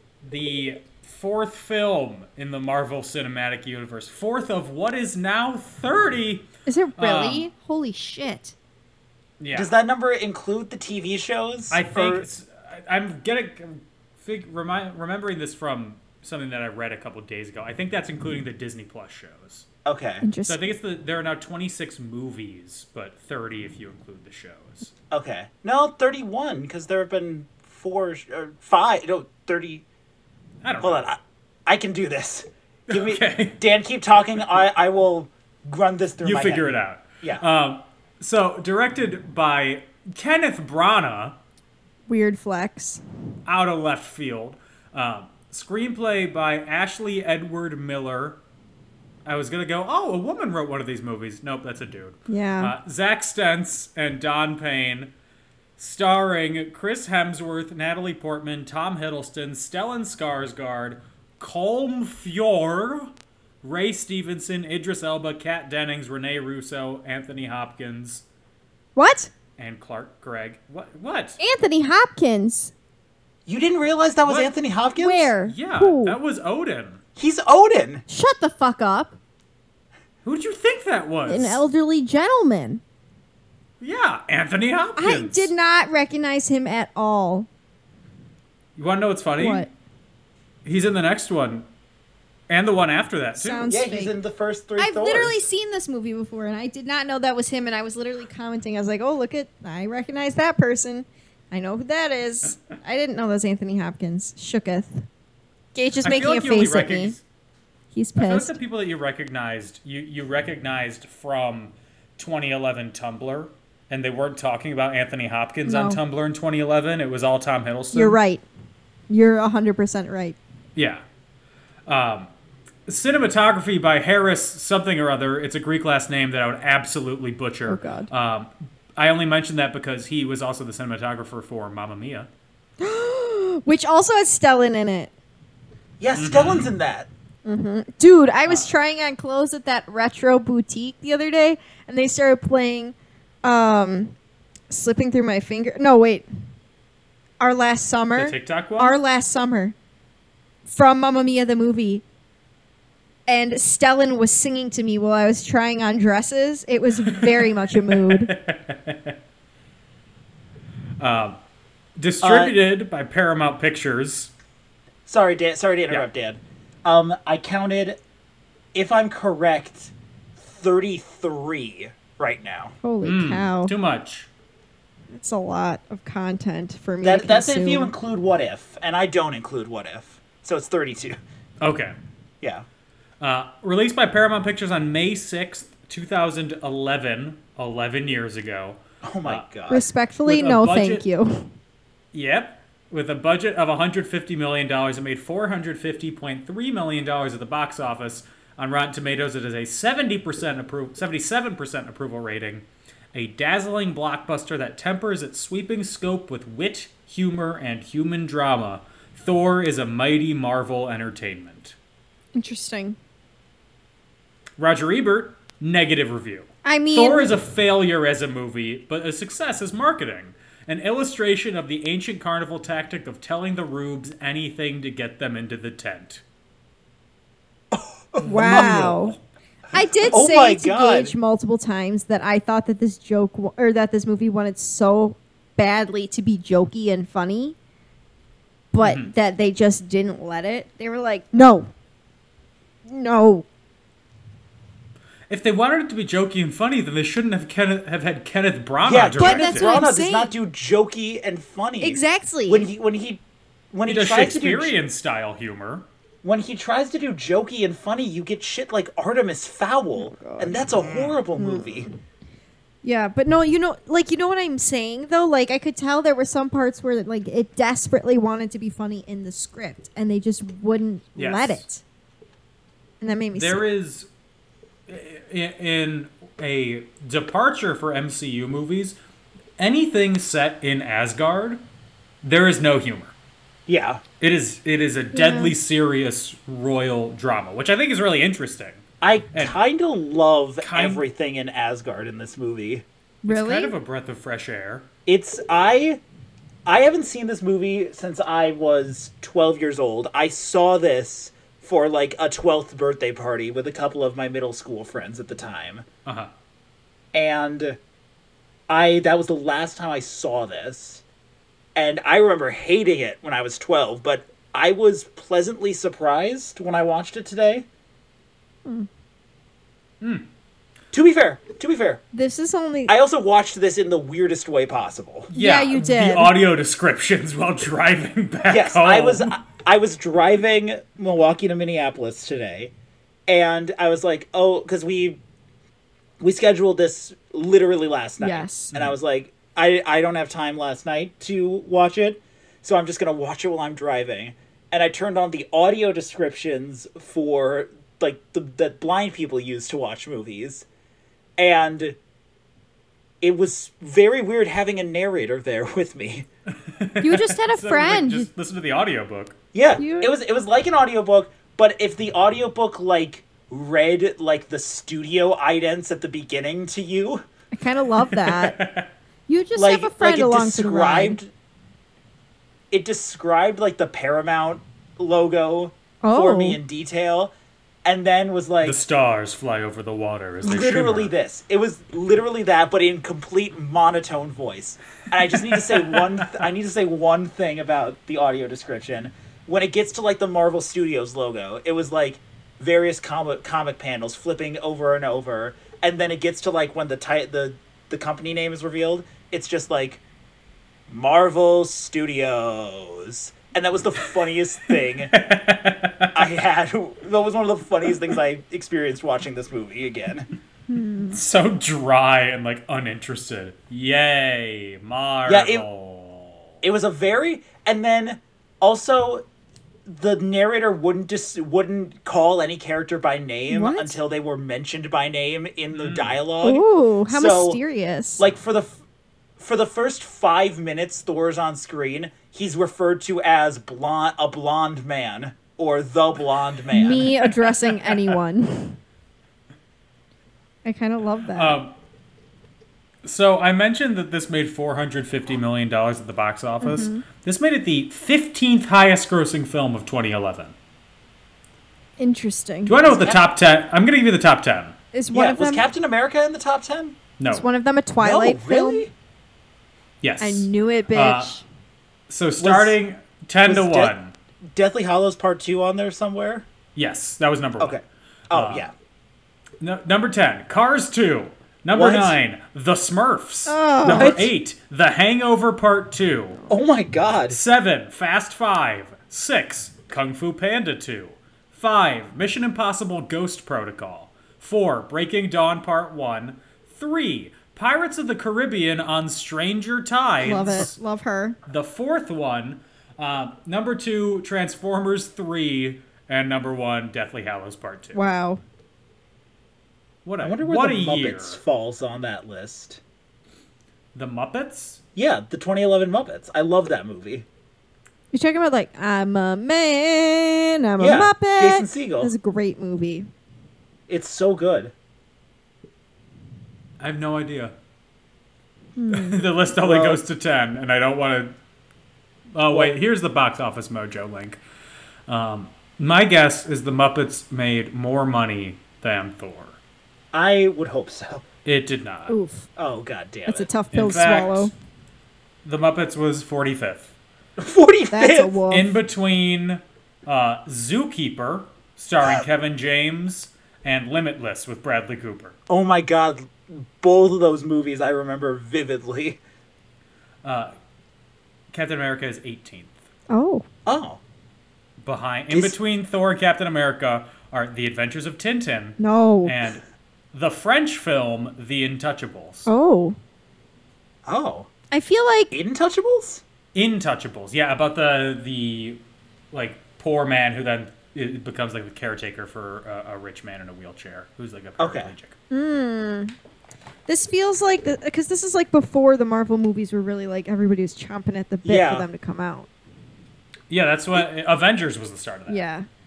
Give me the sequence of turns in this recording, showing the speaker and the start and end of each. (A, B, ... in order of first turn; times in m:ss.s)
0:00.2-0:07.5 A
0:06.7-0:08.5 B
0:09.4-0:09.7 A
0:09.5-0:12.2 C
0:11.7-0:19.7 A
0:19.8-0:20.2 C
0:20.2-0:20.6 B
0:20.4-0:24.9 A
0:25.1-0:29.8 C
0:30.6-0:31.1 A
0:30.8-0:37.4 C
0:32.9-0:33.6 A
0:36.2-0:41.4 A
0:42.1-0:43.0 B
0:43.4-0:48.4 A
0:49.2-0:55.1 A
0:52.3-0:52.7 B
0:55.8-1:08.2 A
1:09.0-1:09.3 B
1:09.6-1:11.4 A
1:11.4-1:12.7 B
1:13.4-1:15.3 C
1:15.0-1:16.2 B
1:15.4-1:17.0 A
1:17.2-1:18.0 C
1:18.1-1:19.2 B
1:20.2-1:21.6 A
1:21.3-1:22.8 B
1:23.8-1:25.5 A
1:25.0-1:27.5 B
1:28.8-1:29.7 A
1:29.4-1:29.7 B
1:30.6-1:31.6 A
1:32.5-1:33.7 A
1:33.3-1:34.1 B
1:33.7-1:35.4 C
1:34.8-1:45.0 B
1:45.7-1:47.2 B
1:46.0-1:47.2 A
1:47.9-1:48.5 B
1:48.2-1:58.2 A
1:55.6-1:56.0 B
1:57.9-1:58.4 B
1:59.1-2:00.4 B
2:00.8-2:01.0 A
2:01.9-2:02.3 A
2:02.9-2:12.3 A
2:07.7-2:08.1 B
2:12.8-2:15.1 B
2:16.0-2:17.1 C
2:16.2-2:16.7 A
2:17.4-2:24.1 B
2:24.7-2:26.3 B
2:27.4-2:29.7 B
2:28.2-2:29.0 A
2:30.7-2:32.0 B
2:33.3-2:38.3 B
2:37.0-2:39.2 A
2:41.0-2:41.4 A
2:42.0-2:44.3 A
2:42.2-2:42.5 C
2:45.0-2:48.0 C
2:48.7-2:52.7 C
2:52.8-2:53.7 B
2:53.0-2:54.3 A
2:55.1-2:57.9 B
2:57.0-3:01.2 C
3:01.6-3:02.0 A
3:03.2-3:09.4 A
3:09.0-3:09.9 C
3:09.7-3:11.5 B
3:10.2-3:11.0 A
3:12.1-3:31.8 A
3:32.3-3:33.0 B
3:34.6-3:46.2 A
3:36.6-3:37.3 B
3:47.7-3:48.9 C
3:48.2-3:49.2 B
3:48.3-3:49.1 A
3:49.7-3:57.6 B
3:50.1-3:51.1 C
3:58.7-4:01.7 B
3:58.8-3:59.1 A
4:02.8-4:03.4 B
4:05.3-4:09.8 A
4:08.8-4:14.7 C
4:09.2-4:10.3 B
4:11.8-4:12.7 B
4:13.9-4:15.8 A
4:16.2-4:21.9 C
4:20.0-4:20.6 B
4:21.4-4:22.0 B
4:22.8-4:31.8 B
4:31.2-4:31.6 A
4:33.0-4:33.6 B
4:33.4-4:34.1 A
4:34.9-4:39.0 A
4:39.6-4:41.6 A
4:42.2-4:43.1 A
4:43.7-4:44.0 C
4:44.2-4:48.8 A
4:45.1-4:45.5 B
4:49.0-4:52.8 C
4:50.6-4:51.0 A
4:53.2-4:53.7 B
4:53.3-4:54.9 A
4:55.0-4:56.0 C
4:56.6-5:05.8 C
5:06.0-5:06.3 A
5:07.1-5:07.8 C
5:08.7-5:11.0 C
5:11.7-5:17.7 C
5:20.0-5:20.3 A
5:20.9-5:22.0 C
5:22.1-5:23.0 B
5:22.9-5:25.3 C
5:25.3-5:29.3 A
5:25.3-5:26.3 B
5:28.5-5:32.7 C
5:33.3-5:35.2 C
5:36.2-5:50.6 C
5:38.2-5:38.7 B
5:51.4-5:52.0 C
5:53.2-5:56.3 C
5:56.6-5:59.4 A
5:57.0-5:58.3 B
5:59.5-6:07.2 C
5:59.8-6:00.1 B
6:07.5-6:08.6 B
6:08.1-6:08.9 A
6:09.3-6:11.2 B
6:09.6-6:11.3 C
6:12.7-6:17.3 C
6:16.0-6:16.6 B
6:17.8-6:18.8 C
6:18.6-6:21.1 A
6:20.4-6:40.0 C
6:25.4-6:26.4 A
6:40.9-6:45.2 C
6:45.1-6:46.2 A
6:46.1-6:50.3 C
6:50.7-6:51.2 B
6:51.1-6:56.5 A
6:55.2-6:55.7 C
6:56.6-6:59.2 C
6:59.8-7:07.6 C
7:03.5-7:04.0 B
7:05.7-7:06.2 A
7:06.4-7:08.2 B
7:08.2-7:08.8 C
7:09.4-7:17.1 C
7:16.7-7:18.8 B
7:17.0-7:18.0 A
7:20.6-7:21.6 B
7:21.3-7:21.7 A
7:23.0-7:30.5 A
7:26.6-7:27.0 B
7:32.0-7:32.9 B
7:32.7-7:34.7 A
7:32.9-7:33.2 C
7:34.9-7:35.7 B
7:35.1-7:37.0 C
7:37.2-7:37.4 A
7:37.3-7:38.9 B
7:38.0-7:38.9 C
7:40.0-7:41.4 A
7:40.2-7:41.4 B
7:42.1-7:44.1 A
7:42.4-7:42.8 C
7:43.4-7:43.9 C
7:44.5-7:46.5 C
7:46.8-7:48.7 A
7:47.6-7:48.7 C
7:49.6-7:56.4 A
7:51.7-7:52.2 C
7:53.5-7:54.2 B
7:53.8-7:54.3 C
7:56.5-7:57.4 C
7:57.3-8:10.8 A
8:10.2-8:11.4 B
8:11.4-8:18.0 A
8:17.9-8:18.4 B
8:20.0-8:21.4 A
8:20.2-8:22.8 C
8:23.9-8:24.8 A
8:25.0-8:27.2 C
8:28.1-8:33.1 B
8:30.8-8:32.1 C
8:33.9-8:34.7 C
8:36.8-8:37.5 A
8:38.8-8:39.2 B
8:38.9-8:41.3 A
8:39.6-8:40.0 C
8:42.3-8:44.4 A
8:42.5-8:42.7 C
8:45.1-8:49.6 A
8:50.1-8:51.2 C
8:51.4-8:52.2 A
8:52.1-8:52.4 B
8:52.6-8:53.5 C
8:53.2-8:54.5 B
8:53.7-8:54.5 A
8:55.4-8:56.9 A
8:57.4-8:58.4 C
8:57.9-8:58.8 B
8:58.5-9:05.4 A
9:05.5-9:09.2 C
9:10.2-9:10.5 A
9:11.5-9:12.8 A
9:13.1-9:13.4 B
9:13.6-9:14.0 C
9:14.8-9:19.6 A
9:15.3-9:15.6 C
9:18.8-9:19.3 B
9:20.1-9:22.5 A
9:22.4-9:23.0 B
9:24.0-9:24.5 C
9:24.7-9:25.3 B
9:25.3-9:26.2 C
9:26.5-9:28.8 A
9:29.3-9:35.2 A
9:34.6-9:34.9 C
9:35.3-9:36.1 B
9:36.9-9:42.5 B
9:41.4-9:41.9 C
9:43.5-9:45.4 A
9:45.3-9:45.7 B